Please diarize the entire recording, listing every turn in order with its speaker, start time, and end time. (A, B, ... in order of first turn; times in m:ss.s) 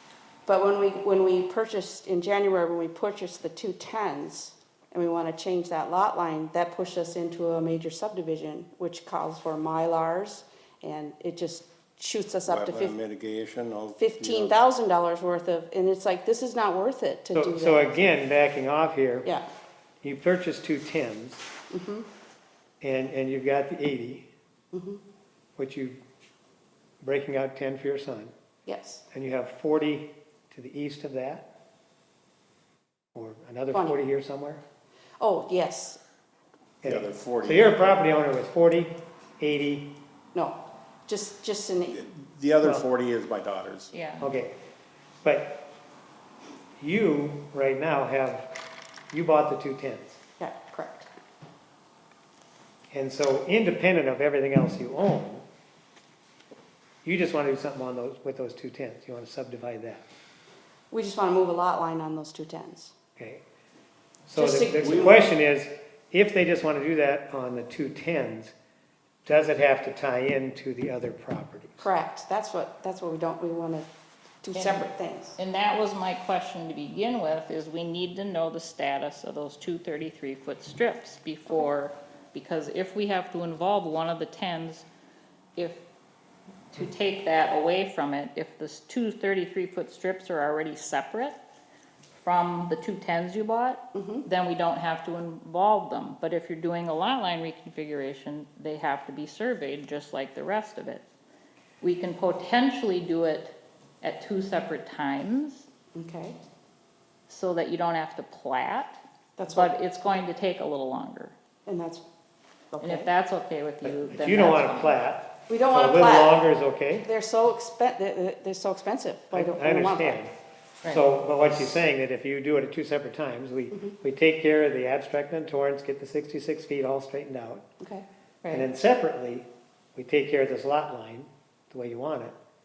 0:00.4-0:12.9 A
0:12.5-0:14.6 B
0:14.0-0:18.0 A
0:17.3-0:19.3 C
0:20.0-0:21.4 C
0:21.7-0:22.1 A
0:22.8-0:24.3 C
0:24.7-0:25.0 A
0:25.6-0:26.0 C
0:27.0-0:28.3 C
0:28.6-0:29.0 A
0:29.1-0:31.5 C
0:33.1-0:34.6 C
0:35.2-0:36.0 A
0:36.8-0:37.9 B
0:36.8-0:39.9 C
0:40.3-0:42.0 A
0:41.9-0:43.9 B
0:43.9-0:44.3 D
0:44.2-0:44.6 C
0:45.2-0:45.7 C
0:46.8-0:48.5 C
0:49.1-0:50.2 C
0:50.4-0:51.1 A
0:52.9-0:55.4 C
0:57.0-1:00.0 C
1:00.9-1:02.9 A
1:03.2-1:03.4 C
1:04.2-1:08.5 C
1:04.4-1:05.2 A
1:09.2-1:11.9 C
1:11.8-1:13.9 A
1:14.4-1:15.4 A
1:14.5-1:24.8 D
1:25.6-1:25.8 D
1:26.7-1:31.4 D
1:32.1-1:41.0 D
1:33.9-1:34.2 A
1:41.8-1:45.7 D
1:45.9-1:46.4 A
1:47.3-1:51.3 D
1:49.4-1:49.7 A
1:51.6-1:52.0 A
1:52.7-1:53.1 A
1:52.8-1:55.0 D
1:53.8-1:57.1 C
1:55.5-1:56.4 A
1:57.0-2:00.2 A
1:59.3-2:00.3 C
2:00.8-2:07.7 C
2:07.8-2:08.7 A
2:08.5-2:12.3 C